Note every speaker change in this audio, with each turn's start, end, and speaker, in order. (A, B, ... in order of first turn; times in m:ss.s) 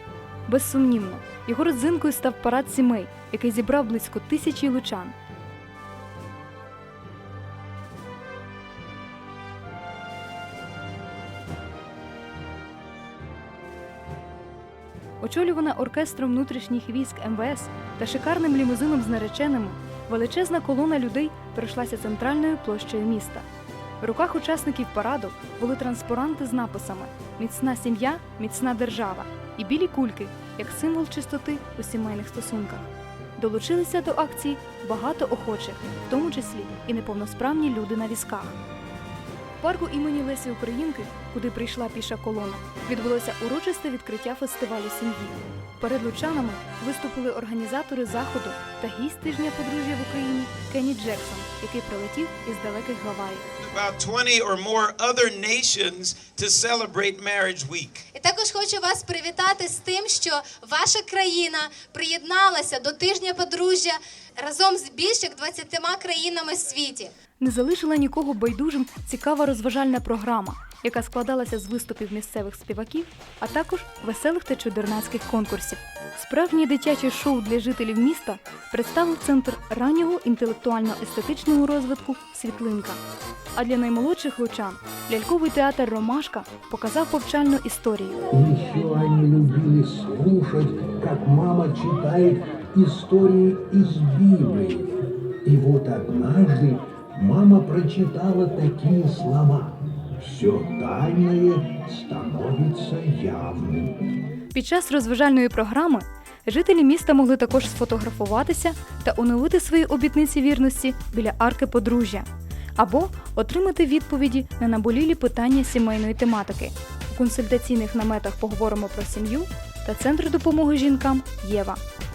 0:00.5-0:05.1 A
0:15.2-0:23.4 A
0:24.0-0:38.6 A
0:39.6-0:53.4 A
0:53.7-0:58.0 B
0:58.1-1:07.1 C
1:07.4-1:23.0 A
1:23.5-1:28.2 A
1:28.3-1:44.0 D
1:44.5-2:01.8 A